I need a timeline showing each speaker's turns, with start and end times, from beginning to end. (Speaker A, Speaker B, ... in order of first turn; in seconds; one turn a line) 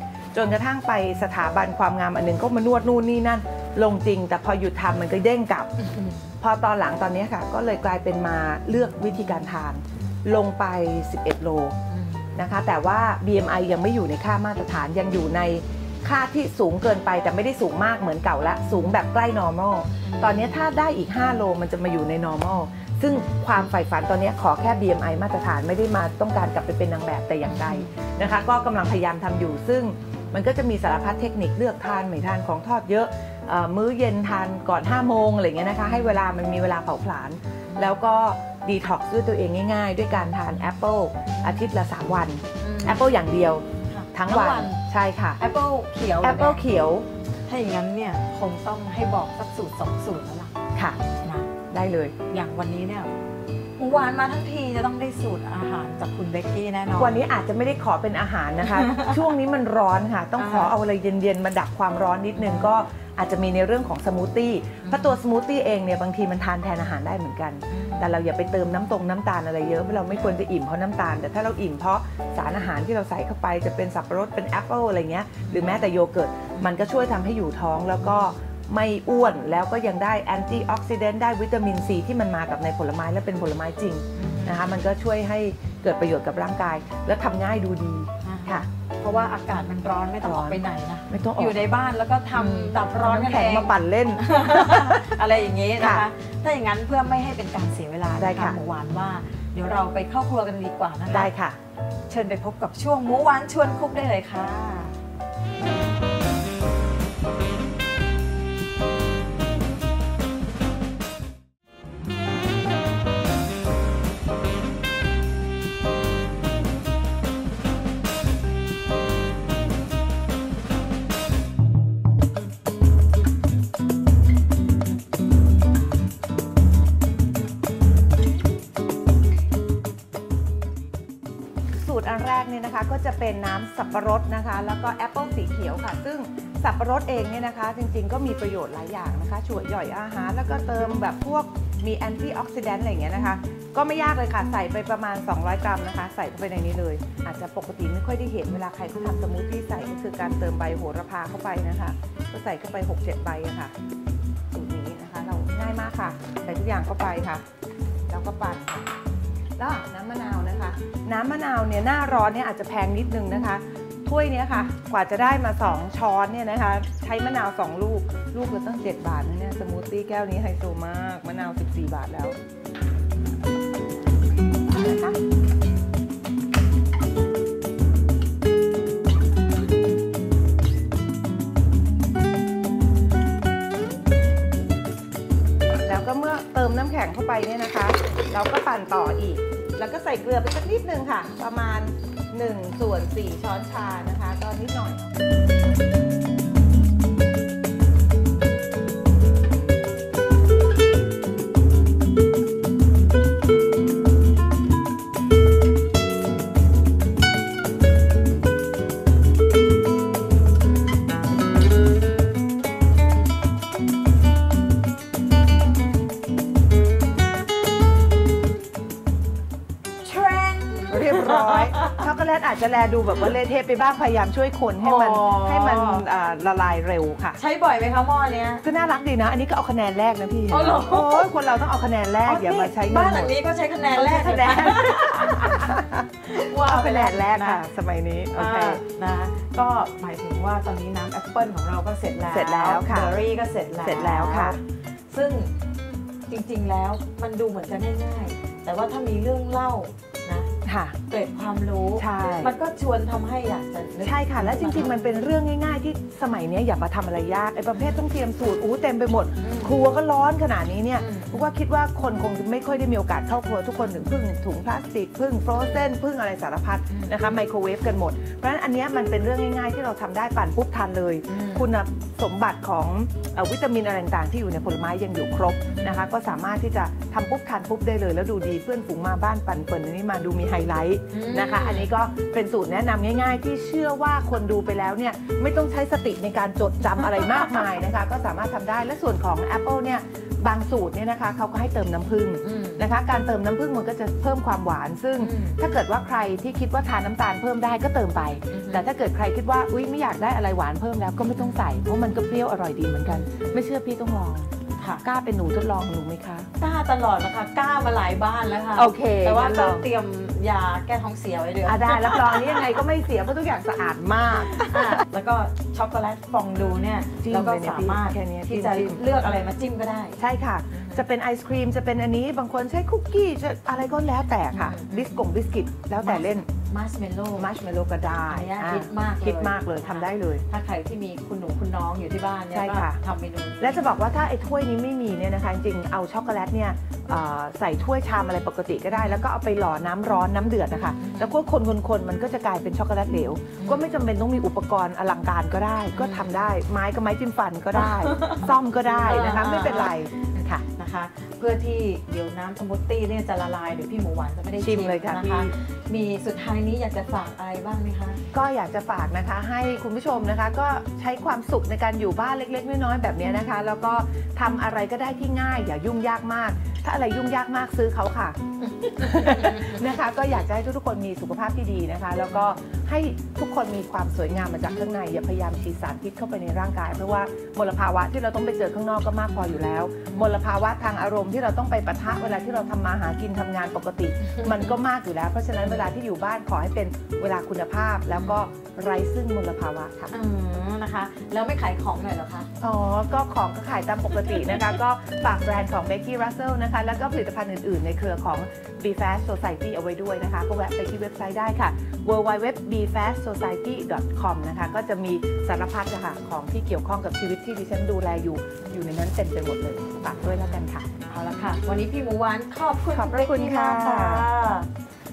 Speaker A: 0.3-5.7
Speaker B: 5.8-6.3
Speaker A: 6.4-11.8
Speaker B: 11.9-12.4
Speaker A: 12.3-45.4
Speaker B: 18.7-18.9
Speaker B: 20.0-20.6
Speaker B: 27.4-28.1
Speaker B: 35.9-36.2
Speaker B: 37.7-38.0
Speaker B: 41.3-41.5
Speaker B: 42.6-43.0
Speaker B: 43.9-44.8
Speaker B: 45.4-46.7
Speaker A: 46.2-47.1
Speaker B: 47.5-51.5
Speaker A: 50.7-51.0
Speaker A: 51.7-52.1
Speaker B: 52.3-53.1
Speaker B: 53.8-57.2
Speaker A: 57.0-88.7
Speaker B: 58.6-59.2
Speaker B: 60.4-60.7
Speaker B: 64.8-65.2
Speaker B: 67.7-68.1
Speaker B: 75.4-75.8
Speaker B: 84.2-84.7
Speaker B: 88.2-101.3
Speaker A: 90.2-91.6
Speaker A: 92.3-95.1
Speaker A: 95.8-96.0
Speaker A: 98.2-98.6
Speaker A: 101.1-101.6
Speaker B: 102.1-105.0
Speaker A: 131.8-153.7
Speaker A: 154.5-157.4
Speaker A: 158.1-158.9
Speaker A: 159.6-172.4
Speaker A: 174.5-175.2
Speaker A: 185.8-195.1
Speaker B: 220.0-222.0
Speaker A: 220.9-227.4
Speaker B: 224.8-226.0
Speaker B: 227.4-228.6
Speaker A: 228.6-233.3
Speaker B: 230.5-231.3
Speaker B: 232.2-237.6
Speaker A: 233.9-238.8
Speaker B: 238.3-245.5
Speaker A: 242.3-243.2
Speaker A: 243.8-244.6
Speaker B: 246.3-250.5
Speaker A: 250.6-251.0
Speaker B: 251.1-254.9
Speaker A: 251.9-252.5
Speaker A: 254.0-306.5
Speaker B: 259.4-259.8
Speaker B: 260.9-261.4
Speaker B: 266.9-267.2
Speaker B: 271.3-271.7
Speaker B: 281.1-281.9
Speaker B: 292.4-292.8
Speaker B: 295.2-295.6
Speaker B: 298.5-298.8
Speaker B: 304.8-305.0
Speaker B: 306.6-312.6
Speaker A: 308.7-309.9
Speaker A: 311.6-315.0
Speaker B: 314.6-320.2
Speaker A: 317.2-319.4
Speaker A: 320.2-326.4
Speaker B: 320.7-321.0
Speaker B: 324.5-325.0
Speaker B: 326.0-327.5
Speaker A: 327.4-330.4
Speaker B: 328.3-333.8
Speaker A: 332.5-333.0
Speaker A: 333.6-350.6
Speaker B: 341.0-341.3
Speaker B: 343.6-343.9
Speaker B: 345.9-346.5
Speaker B: 347.7-358.2
Speaker A: 354.6-355.5
Speaker A: 358.3-368.4
Speaker B: 368.8-369.7
Speaker A: 368.9-390.1
Speaker B: 384.2-384.7
Speaker B: 390.1-392.5
Speaker A: 392.6-410.9
Speaker B: 410.4-414.7
Speaker A: 412.9-414.2